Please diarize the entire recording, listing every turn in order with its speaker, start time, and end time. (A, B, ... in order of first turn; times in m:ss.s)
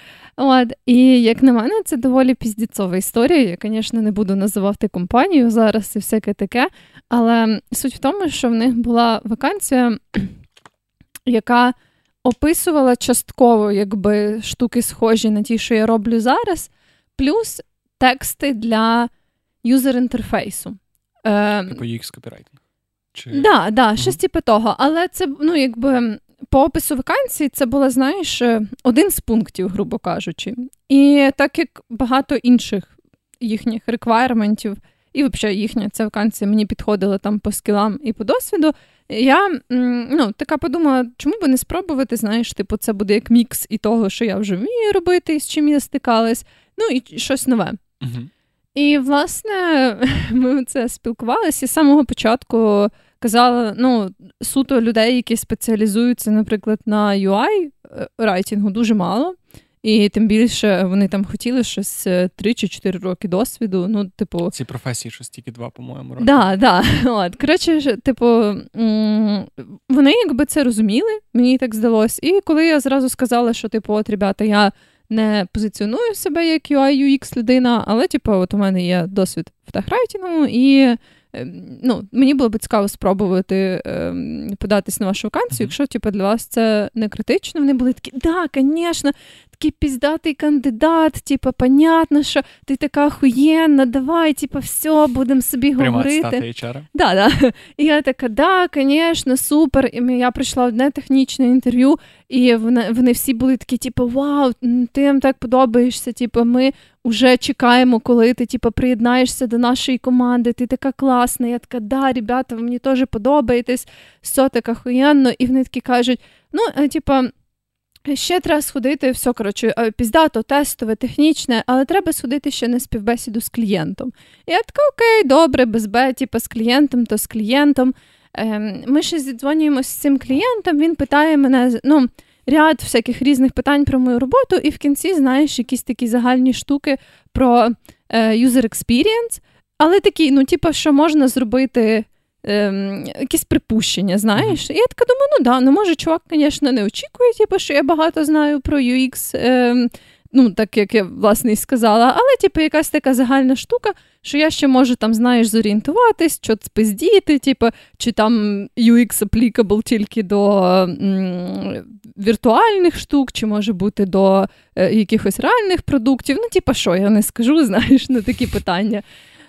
0:00.4-0:10.3 A
0:11.2-0:19.1 A
0:19.6-0:21.8 A
0:21.7-0:22.6 B
0:23.1-0:24.2 B
0:23.3-0:47.8 A
0:48.0-0:48.3 B
0:48.7-1:04.5 A
1:04.5-1:06.5 B
1:06.2-1:36.4 A
1:35.8-1:36.9 B
1:36.9-1:57.3 A
1:58.1-2:49.0 A